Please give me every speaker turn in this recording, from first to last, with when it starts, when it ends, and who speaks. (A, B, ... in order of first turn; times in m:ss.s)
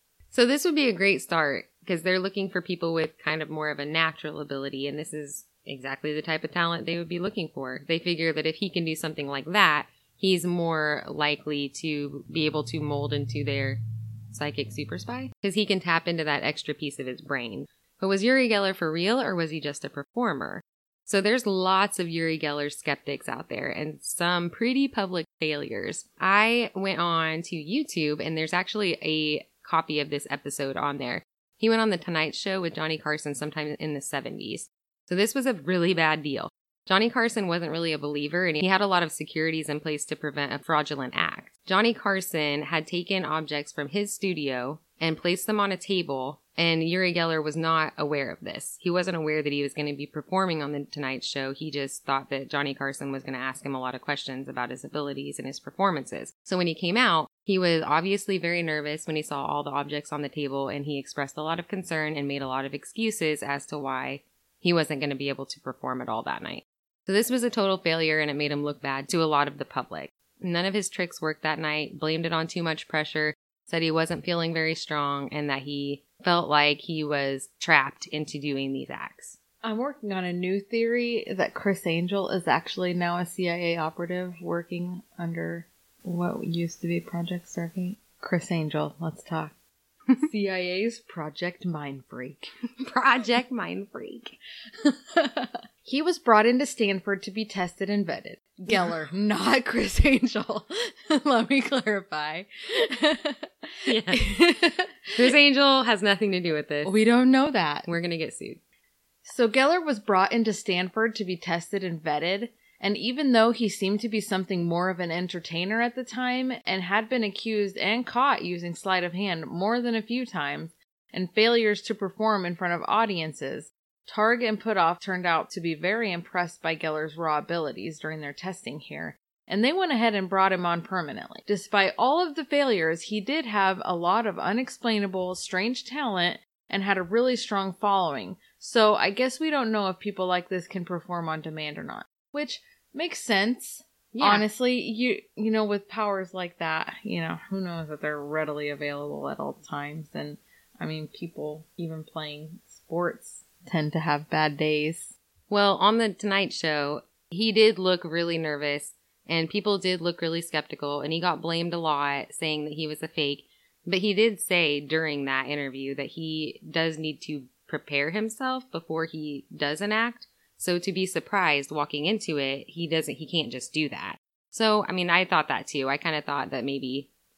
0:00.3-0:13.8 A
0:14.3-1:19.4 A
1:19.6-1:29.5 B
1:30.2-1:32.5 B
1:32.8-1:34.4 A
1:34.8-1:45.3 B
1:43.9-1:44.3 A
1:45.1-1:46.9 A
1:46.8-1:47.9 B
1:47.9-1:48.6 A
1:49.2-2:35.1 B
2:24.1-2:24.5 A
2:35.5-2:57.1 A